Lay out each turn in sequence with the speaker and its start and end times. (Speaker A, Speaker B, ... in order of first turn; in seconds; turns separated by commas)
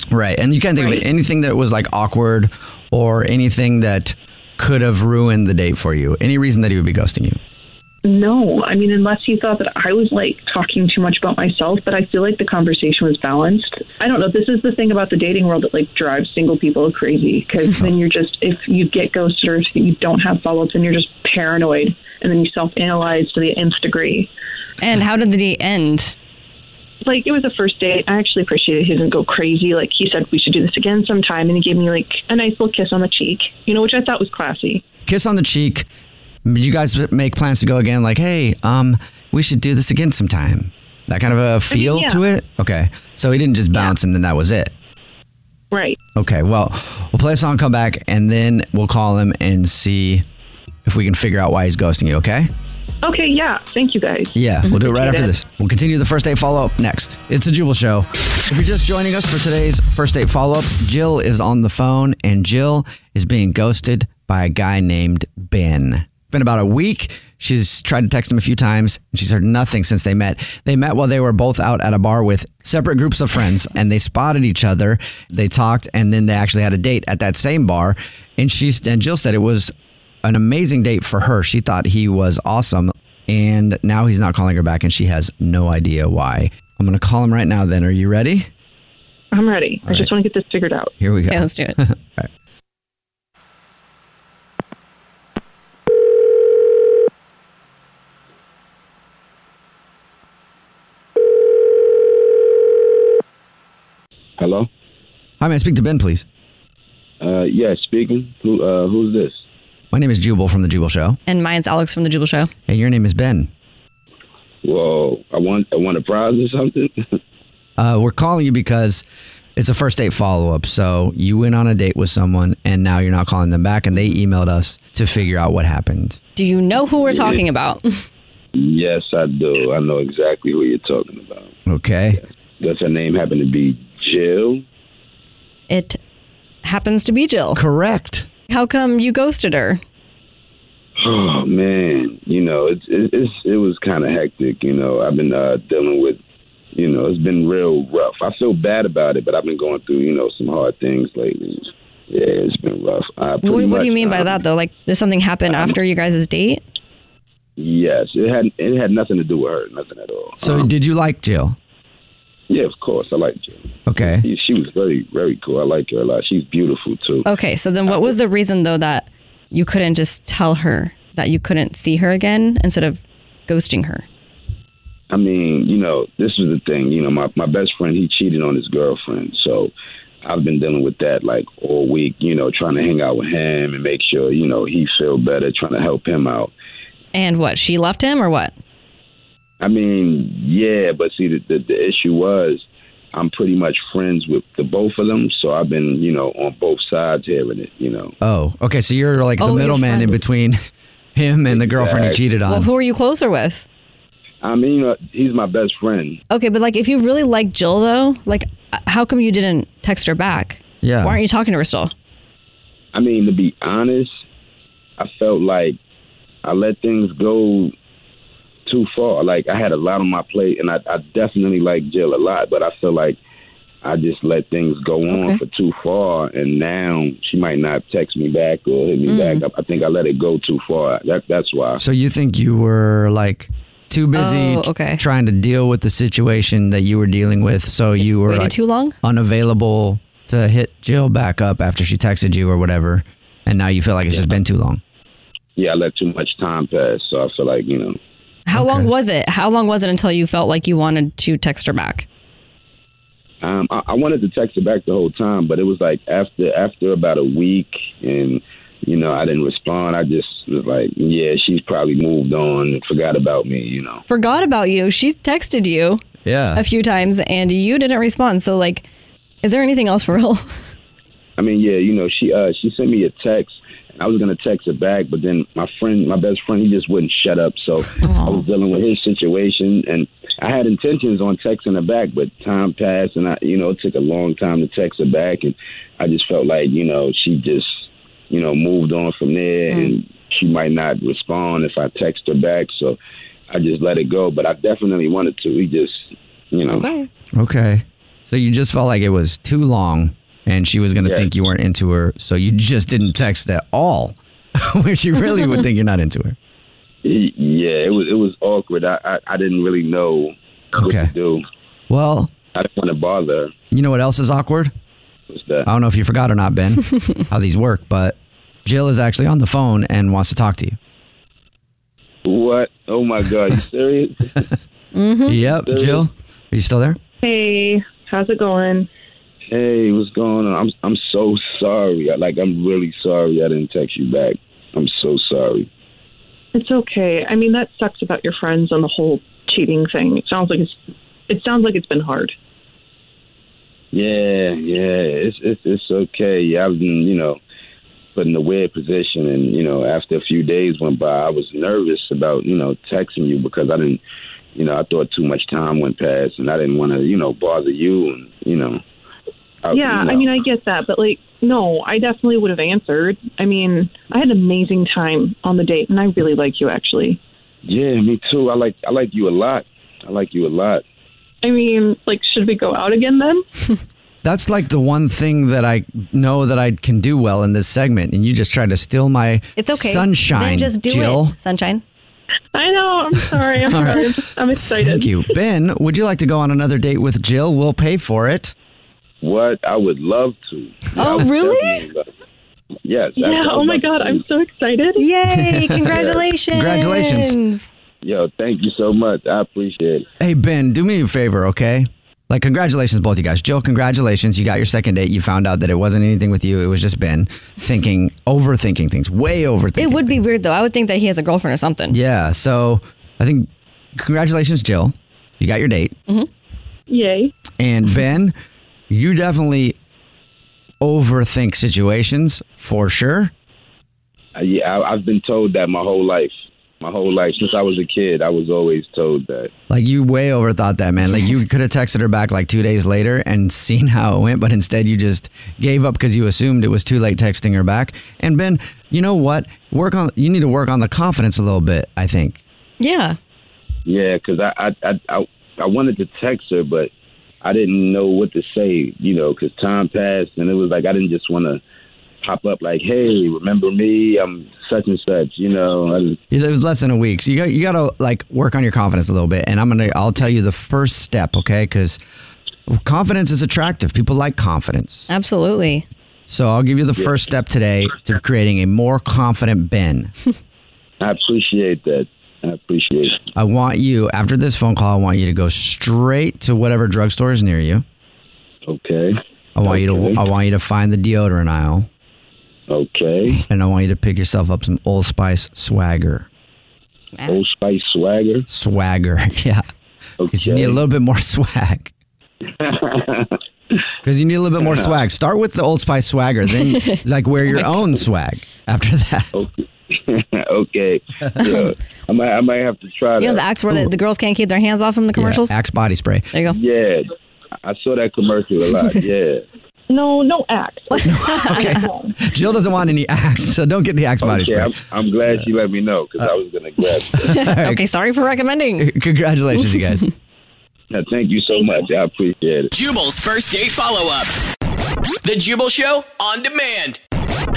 Speaker A: 0.1-7.4, Speaker B: 0.8-1.0, Speaker B: 8.0-24.3, Speaker C: 24.8-26.1, Speaker B: 27.0-34.8, Speaker A: 35.0-35.9, Speaker A: 36.4-44.7, Speaker B: 41.7-42.2, Speaker B: 45.7-46.0, Speaker A: 46.1-50.2, Speaker A: 50.8-52.5, Speaker B: 53.0-55.3, Speaker A: 54.3-79.7, Speaker A: 80.2-88.5, Speaker B: 89.3-90.9, Speaker A: 89.8-90.1, Speaker A: 91.0-92.3, Speaker C: 91.3-91.8, Speaker D: 104.4-104.7, Speaker A: 105.4-106.2, Speaker D: 107.2-109.4, Speaker A: 109.9-111.2, Speaker C: 111.3-112.5, Speaker A: 112.7-113.5, Speaker D: 114.6-116.9, Speaker A: 117.8-119.0, Speaker A: 119.5-126.2, Speaker C: 126.3-128.0, Speaker D: 127.0-127.4, Speaker D: 128.5-131.5, Speaker A: 131.7-132.2, Speaker D: 132.6-134.6, Speaker C: 135.7-136.0, Speaker C: 136.6-137.6, Speaker A: 137.5-138.3, Speaker C: 138.5-139.8, Speaker D: 141.0-146.2, Speaker D: 146.7-154.4, Speaker C: 153.4-156.6, Speaker D: 155.5-155.8, Speaker D: 157.6-160.7, Speaker A: 160.4-161.6, Speaker D: 162.5-167.3, Speaker A: 163.9-164.2, Speaker C: 167.2-174.0, Speaker D: 167.9-168.1, Speaker D: 175.1-179.7, Speaker D: 180.2-186.5, Speaker C: 187.1-188.5, Speaker D: 189.6-198.1, Speaker A: 198.2-200.6, Speaker C: 199.4-200.2, Speaker A: 201.1-202.7, Speaker D: 201.5-202.2, Speaker C: 202.4-203.6, Speaker D: 204.4-206.2, Speaker C: 206.3-211.9, Speaker A: 210.8-211.2, Speaker D: 212.9-214.1, Speaker D: 215.0-215.8, Speaker D: 216.4-217.7, Speaker D: 218.7-223.2, Speaker D: 223.8-231.8, Speaker C: 225.1-225.4, Speaker C: 229.1-229.4, Speaker A: 231.8-244.8, Speaker C: 234.1-235.0, Speaker C: 238.0-238.9, Speaker D: 245.6-248.0, Speaker C: 248.5-252.1, Speaker A: 248.5-248.9, Speaker D: 253.4-264.0, Speaker C: 264.1-266.0, Speaker A: 266.2-266.6, Speaker C: 266.5-268.9, Speaker C: 269.4-270.6, Speaker D: 271.4-293.0, Speaker C: 278.0-278.4, Speaker D: 293.5-296.9, Speaker C: 296.7-297.1, Speaker A: 297.4-306.4, Speaker D: 301.0-301.3, Speaker D: 307.0-311.4, Speaker A: 310.7-311.1, Speaker A: 311.9-312.3, Speaker D: 312.5-313.5, Speaker A: 313.7-314.7, Speaker D: 315.3-315.7, Speaker A: 315.6-320.8, Speaker D: 322.2-324.4, Speaker C: 324.9-325.4, Speaker A: 325.3-327.0, Speaker D: 325.6-326.0, Speaker B: 327.2-328.9, Speaker D: 329.5-335.7, Speaker B: 336.5-340.8, Speaker B: 341.3-342.3, Speaker D: 343.9-347.4, Speaker D: 348.1-354.0, Speaker D: 354.5-358.8, Speaker D: 359.6-360.3, Speaker B: 359.7-367.2, Speaker D: 367.6-370.8, Speaker B: 371.4-373.4, Speaker A: 374.2-381.3, Speaker C: 379.6-381.8, Speaker B: 382.5-385.2, Speaker A: 383.6-388.5, Speaker D: 389.2-392.0, Speaker C: 390.9-391.9, Speaker D: 392.8-394.2, Speaker B: 393.2-395.0, Speaker C: 395.0-397.6, Speaker A: 395.3-395.9, Speaker D: 395.9-396.2, Speaker A: 396.5-397.4, Speaker D: 398.0-400.1, Speaker A: 400.2-410.3, Speaker C: 409.8-412.0, Speaker A: 411.9-415.9, Speaker B: 416.9-417.3, Speaker A: 417.6-418.3, Speaker A: 418.9-419.8, Speaker A: 420.8-423.3, Speaker D: 424.3-429.5, Speaker A: 429.7-442.4, Speaker C: 442.8-443.2, Speaker D: 443.9-446.9, Speaker D: 447.4-451.6, Speaker D: 452.2-456.2, Speaker A: 456.3-462.0, Speaker A: 462.7-465.1, Speaker C: 465.1-465.8, Speaker A: 466.3-470.1, Speaker D: 471.0-473.2, Speaker A: 473.4-477.8, Speaker D: 478.7-480.2, Speaker A: 479.6-481.9, Speaker D: 482.7-483.4, Speaker A: 483.4-486.3, Speaker D: 487.2-488.4, Speaker A: 488.5-489.6, Speaker D: 490.2-490.8, Speaker A: 490.3-491.9, Speaker D: 492.6-493.3, Speaker A: 494.0-499.3, Speaker D: 494.6-494.9, Speaker C: 496.6-497.0, Speaker D: 499.3-503.4, Speaker C: 503.2-505.5, Speaker A: 505.1-506.3, Speaker C: 506.3-506.6, Speaker D: 506.5-507.1, Speaker D: 507.6-509.4, Speaker B: 509.9-512.1, Speaker C: 511.0-511.8, Speaker A: 511.0-514.8, Speaker D: 514.2-517.2, Speaker C: 517.2-518.9, Speaker A: 517.2-517.8, Speaker A: 518.8-520.0, Speaker C: 519.6-519.9, Speaker D: 520.9-522.7, Speaker E: 522.7-524.3, Speaker E: 525.2-527.0